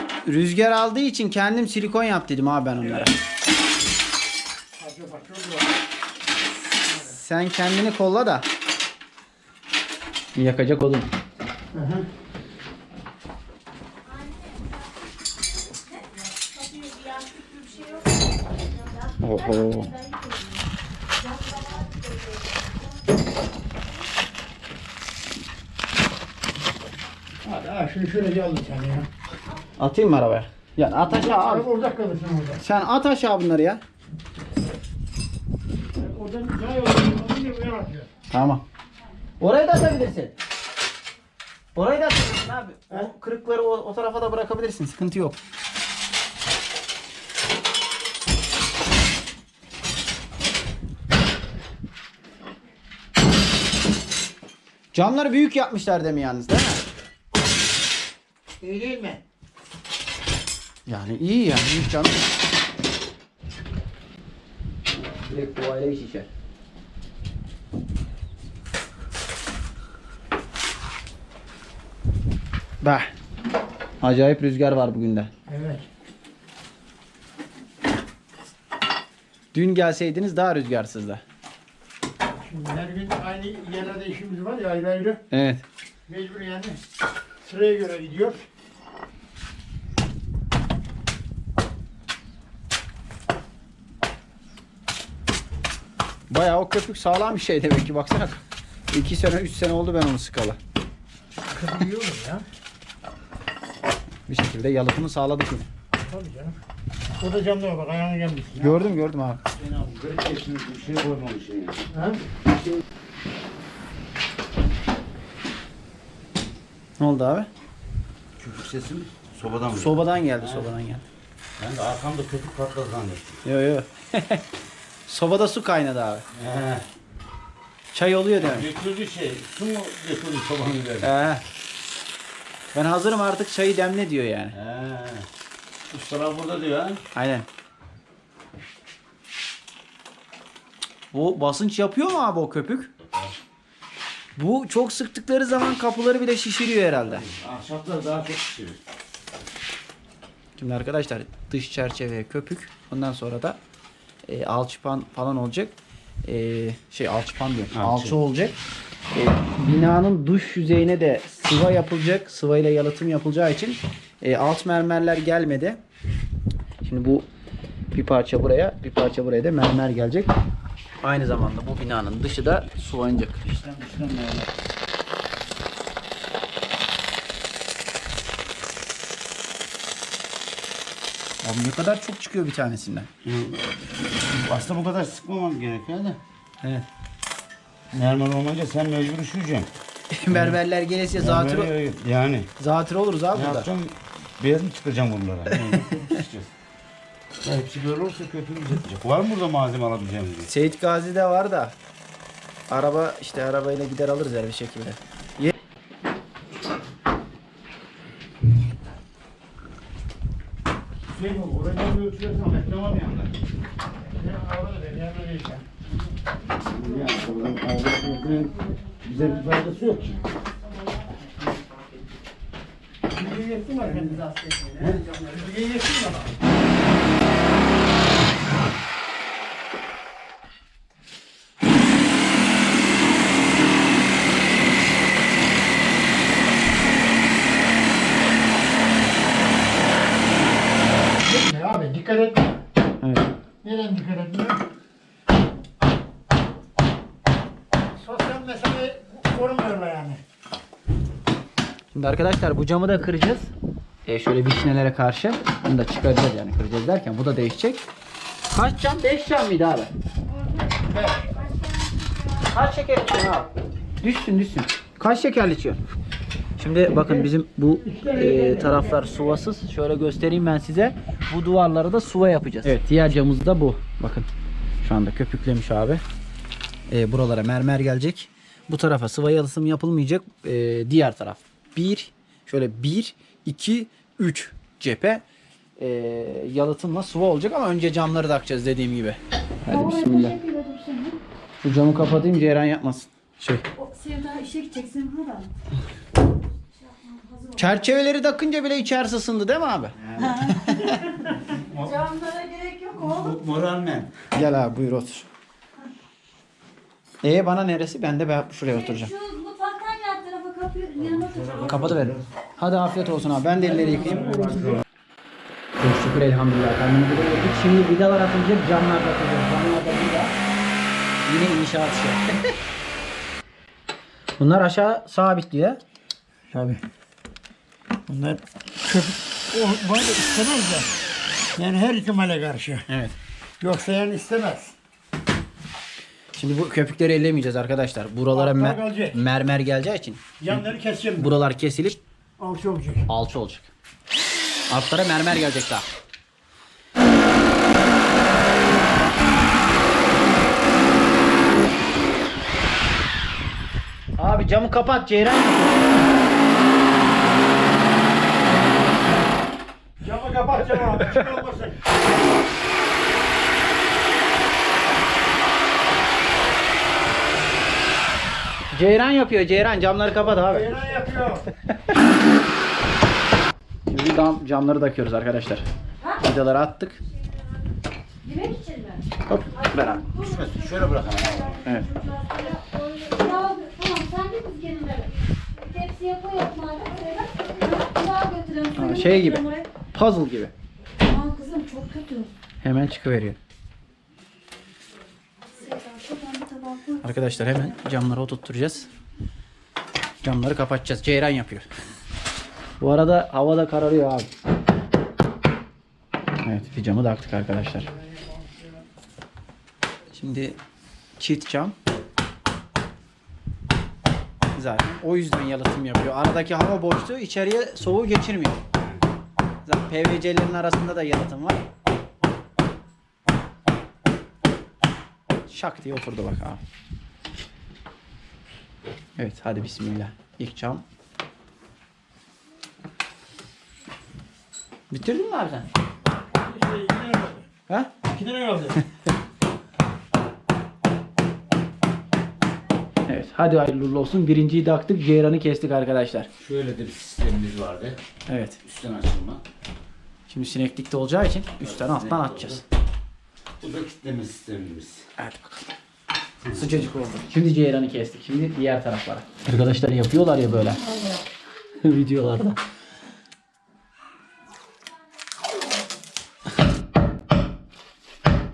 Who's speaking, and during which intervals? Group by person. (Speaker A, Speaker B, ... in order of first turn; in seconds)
Speaker A: 0.3-3.1, 7.1-8.5, 10.3-11.1, 19.2-19.9, 29.8-31.7, 32.6-33.8, 38.3-38.6, 39.4-40.3, 41.8-45.4, 54.9-56.8, 60.9-62.2, 64.9-66.3, 72.8-73.1, 74.0-75.3, 79.5-81.2, 85.3-85.6, 96.3-100.6, 104.3-105.7, 108.6-109.4, 117.0-117.5, 119.8-121.0, 123.4-124.4, 125.1-126.2, 127.9-128.7, 131.0-131.4, 132.7-134.6, 137.1-137.5, 141.1-142.9, 144.4-147.3, 150.6-153.6, 154.3-158.6, 159.1-165.8, 166.8-167.3, 167.9-170.3, 171.0-173.4, 181.4-183.1, 190.1-191.7, 192.6-193.7, 200.5-201.8, 202.7-205.5, 223.9-225.2, 243.0-243.3, 251.9-253.5, 254.1-257.8, 258.5-259.9, 262.5-263.5, 264.0-265.8, 266.6-274.3, 274.8-276.0, 276.9-285.2, 285.8-290.4, 291.6-293.6, 297.6-300.9, 304.3-305.3, 307.2-309.1, 311.7-314.7, 315.8-320.4, 321.2-322.6, 324.4-325.8, 332.9-333.1, 336.4-342.0, 343.1-343.7, 344.7-345.9, 354.2-356.1, 368.7-370.7, 373.9-375.7, 376.2-377.0, 379.3-380.0, 388.8-389.4, 389.9-390.5, 392.6-393.4, 397.0-398.9, 400.2-401.7, 402.8-404.3, 406.4-407.9, 410.1-410.6, 411.2-411.8, 414.6-418.6, 419.7-421.6, 425.5-426.6, 429.2-430.9, 434.9-435.7, 443.1-446.3, 448.3-448.6, 450.3-452.6, 455.2-455.6, 456.5-460.8, 461.8-462.6
Speaker B: 4.8-5.7, 11.7-12.1, 27.4-29.1, 31.1-32.6, 36.0-38.1, 58.6-59.2, 75.5-75.9, 82.4-85.2, 86.1-86.8, 87.4-88.5, 101.5-102.4, 106.0-106.6, 107.2-108.7, 111.9-112.2, 214.0-215.7, 223.2-224.2, 225.2-226.4, 241.2-242.5, 243.6-244.6, 248.0-250.2, 260.9-261.2, 267.8-268.9, 313.8-314.8, 326.5-326.8, 328.1-330.9, 331.6-332.9, 333.6-334.8, 338.3-339.2, 340.4-341.3, 342.4-343.1, 360.0-361.9, 370.5-371.5, 408.0-408.7, 436.3-437.5, 438.1-438.8
Speaker C: 14.2-14.7, 16.4-18.1, 18.8-20.6, 21.2-22.5, 289.7-291.2, 293.8-295.5, 296.8-297.6, 300.4-301.3, 301.8-303.3, 308.7-311.8, 378.2-389.7, 391.0-392.3, 395.5-397.7
Speaker D: 109.5-111.9, 118.4-120.7, 121.6-123.4, 126.3-126.8, 128.4-131.1, 134.5-135.3, 135.9-137.1, 147.1-148.8, 157.7-158.2, 173.4-174.5, 183.2-183.6, 184.2-186.2, 187.9-189.7, 190.3-190.6, 191.2-192.5, 193.3-196.5, 197.4-200.5, 211.1-213.3, 216.6-220.2, 300.0-300.4, 301.4-302.0, 303.0-304.1, 311.0-312.3, 313.9-314.8, 380.1-381.6, 446.4-448.0, 448.6-449.4, 451.6-452.6, 453.6-455.1